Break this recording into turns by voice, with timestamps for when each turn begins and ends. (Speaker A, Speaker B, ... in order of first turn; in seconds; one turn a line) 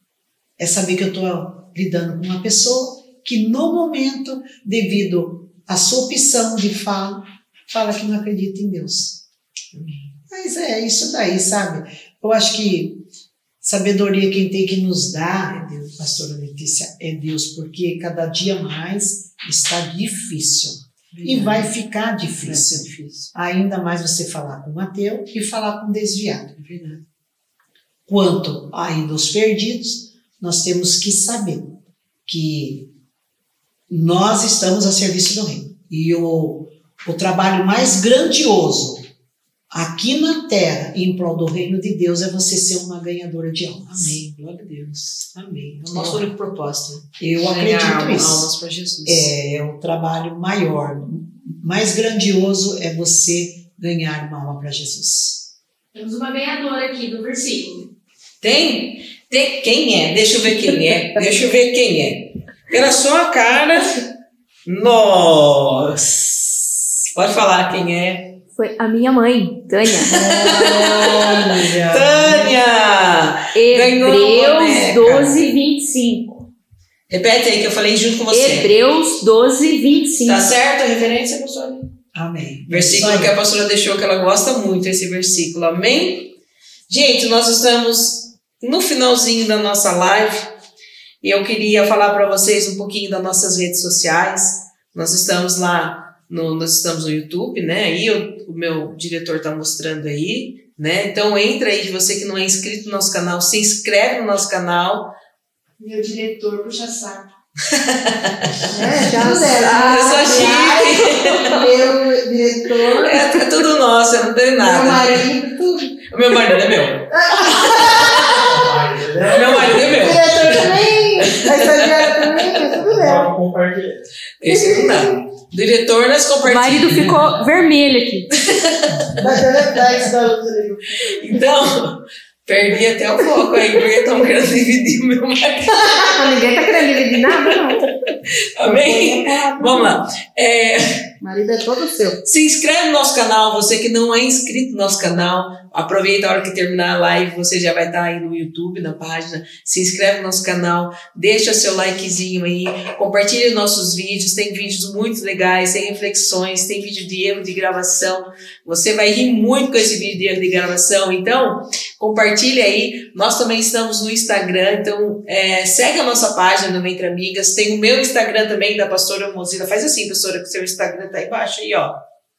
Speaker A: 0.6-9.2
Speaker B: 9.7-10.1
Speaker A: 10.3-13.0
Speaker A: 13.6-26.5
Speaker B: 15.5-15.8
Speaker B: 21.1-21.7
Speaker B: 22.3-23.3
Speaker B: 26.6-27.0
Speaker A: 28.1-31.7
Speaker A: 32.2-32.9
Speaker A: 33.9-39.0
Speaker A: 39.7-44.2
Speaker B: 43.9-49.3
Speaker A: 45.9-46.3
Speaker A: 47.2-48.5
Speaker A: 49.0-55.5
Speaker C: 55.9-57.9
Speaker B: 58.4-64.1
Speaker B: 64.7-68.3
Speaker C: 68.5-70.5
Speaker B: 70.0-75.4
Speaker A: 70.2-72.6
Speaker C: 73.5-76.5
Speaker B: 77.1-78.7
Speaker C: 78.3-80.5
Speaker B: 80.2-81.9
Speaker A: 82.1-83.3
Speaker B: 82.7-86.3
Speaker B: 86.9-90.5
Speaker B: 91.2-105.1
Speaker D: 105.8-107.2
Speaker B: 107.7-108.7
Speaker D: 108.7-113.5
Speaker C: 108.8-111.2
Speaker B: 109.5-111.7
Speaker B: 113.0-115.3
Speaker D: 114.6-116.0
Speaker B: 116.1-118.7
Speaker D: 117.1-118.8
Speaker E: 118.4-120.0
Speaker B: 119.2-122.7
Speaker D: 119.6-123.4
Speaker E: 122.7-124.0
Speaker B: 124.4-127.3
Speaker D: 124.5-125.2
Speaker C: 126.4-128.3
Speaker B: 128.3-129.6
Speaker A: 128.9-129.8
Speaker D: 129.2-131.1
Speaker B: 131.0-137.9
Speaker C: 135.8-137.8
Speaker B: 138.6-141.1
Speaker D: 138.6-140.0
Speaker D: 141.2-142.2
Speaker B: 142.2-172.0